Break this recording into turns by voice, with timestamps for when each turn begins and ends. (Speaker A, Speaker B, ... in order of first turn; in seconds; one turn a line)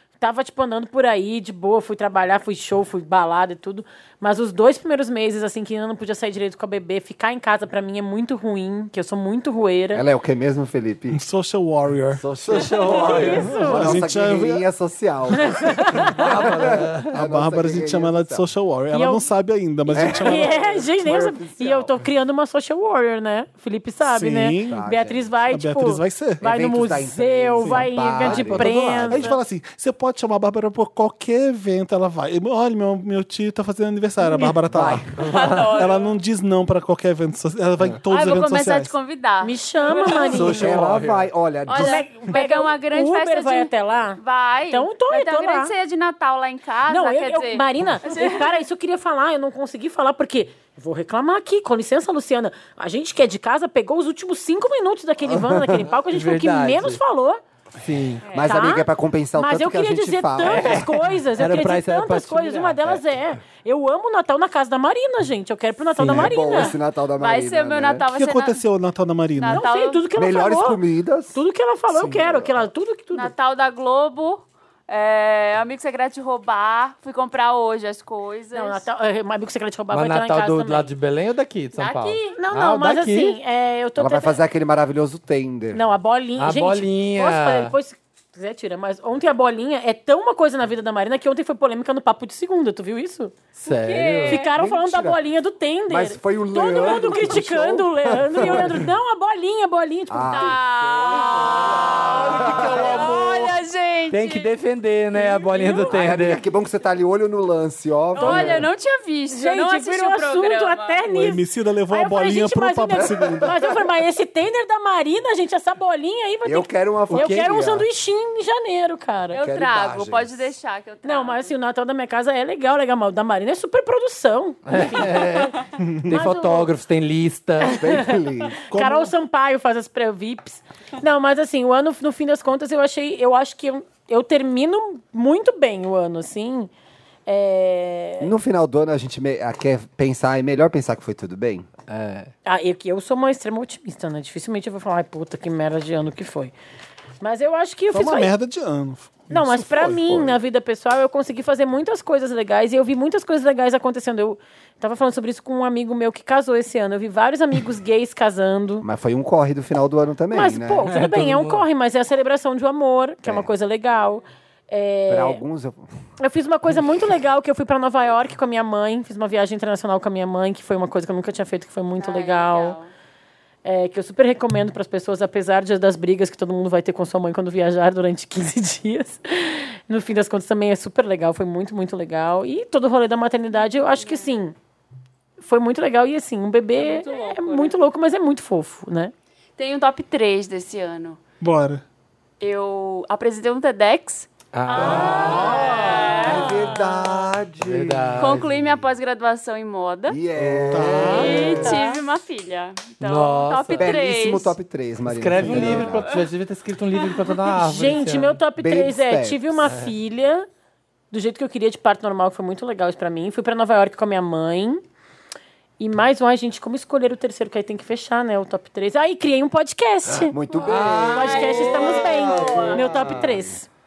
Speaker A: 0.2-10.1
Speaker B: 9.9-11.2
Speaker C: 11.1-12.3
Speaker B: 12.2-18.4
Speaker D: 12.4-13.6
Speaker A: 12.8-14.0
Speaker C: 13.3-14.7
Speaker A: 15.4-16.2
Speaker D: 16.1-17.2
Speaker C: 17.1-20.8
Speaker A: 18.9-19.3
Speaker B: 19.9-22.0
Speaker A: 20.0-29.3
Speaker C: 24.0-24.8
Speaker B: 24.7-25.4
Speaker C: 25.5-26.4
Speaker B: 26.4-29.3
Speaker C: 27.6-38.9
Speaker B: 34.7-35.1
Speaker D: 35.1-35.8
Speaker E: 35.2-36.1
Speaker E: 38.1-40.7
Speaker A: 39.4-40.8
Speaker D: 40.1-41.3
Speaker B: 40.4-42.1
Speaker E: 41.7-48.6
Speaker A: 41.7-45.7
Speaker A: 46.9-57.4
Speaker B: 55.2-55.9
Speaker D: 56.1-57.0
Speaker D: 57.8-58.2
Speaker E: 58.2-58.6
Speaker B: 58.3-61.0
Speaker A: 58.4-66.8
Speaker D: 60.4-63.1
Speaker D: 66.0-66.4
Speaker B: 66.0-68.1
Speaker E: 67.2-68.6
Speaker C: 68.1-69.6
Speaker E: 69.4-70.0
Speaker A: 69.5-70.8
Speaker B: 70.2-71.4
Speaker A: 71.3-73.3
Speaker B: 72.1-72.6
Speaker E: 73.1-78.9
Speaker A: 78.5-80.9
Speaker D: 79.9-83.4
Speaker E: 81.7-82.3
Speaker A: 82.3-84.4
Speaker B: 84.0-85.8
Speaker A: 85.7-93.3
Speaker D: 86.4-87.7
Speaker D: 93.5-94.4
Speaker E: 93.7-94.5
Speaker A: 94.2-100.6
Speaker B: 94.6-95.2
Speaker B: 95.9-98.9
Speaker B: 100.1-103.1
Speaker E: 100.3-104.5
Speaker C: 101.3-103.6
Speaker D: 104.1-106.4
Speaker A: 105.1-106.1
Speaker B: 105.9-108.7
Speaker E: 108.1-111.2
Speaker D: 108.2-108.6
Speaker A: 109.3-119.4
Speaker C: 111.2-113.7
Speaker B: 116.4-117.9
Speaker D: 117.1-117.5
Speaker E: 119.3-121.5
Speaker B: 119.3-120.5
Speaker A: 121.0-125.5
Speaker D: 124.7-127.8
Speaker C: 125.8-126.1
Speaker A: 126.1-126.7
Speaker A: 127.6-128.2
Speaker B: 127.8-128.6
Speaker C: 128.7-129.1
Speaker A: 128.7-136.7
Speaker A: 137.3-138.3
Speaker B: 138.2-141.7
Speaker D: 141.9-142.3
Speaker A: 142.5-146.5
Speaker A: 147.2-148.3
Speaker C: 147.9-150.4
Speaker A: 149.3-158.9
Speaker B: 158.8-160.9
Speaker A: 160.3-165.4
Speaker D: 160.8-161.7
Speaker B: 163.2-163.5
Speaker B: 165.1-165.9
Speaker A: 166.2-172.8
Speaker E: 172.0-172.9
Speaker A: 173.7-184.6
Speaker E: 184.0-184.3
Speaker A: 185.4-189.1
Speaker E: 186.8-187.8
Speaker E: 189.6-191.2
Speaker C: 191.4-191.8
Speaker E: 192.4-197.2
Speaker D: 194.5-196.0
Speaker A: 194.7-196.5
Speaker B: 194.8-198.3
Speaker C: 195.0-195.7
Speaker D: 197.6-198.6
Speaker E: 198.2-200.2
Speaker B: 200.1-201.8
Speaker D: 200.4-201.2
Speaker C: 200.7-201.7
Speaker A: 201.0-202.0
Speaker E: 201.0-204.5
Speaker D: 203.0-204.0
Speaker B: 203.8-206.2
Speaker D: 205.1-208.4
Speaker E: 205.4-206.2
Speaker E: 207.0-207.3
Speaker A: 207.5-210.5
Speaker B: 208.6-209.7
Speaker D: 209.7-209.9
Speaker A: 211.1-214.8
Speaker A: 215.8-220.4
Speaker B: 220.1-223.3
Speaker D: 220.5-223.4
Speaker A: 221.1-223.7
Speaker E: 221.2-222.8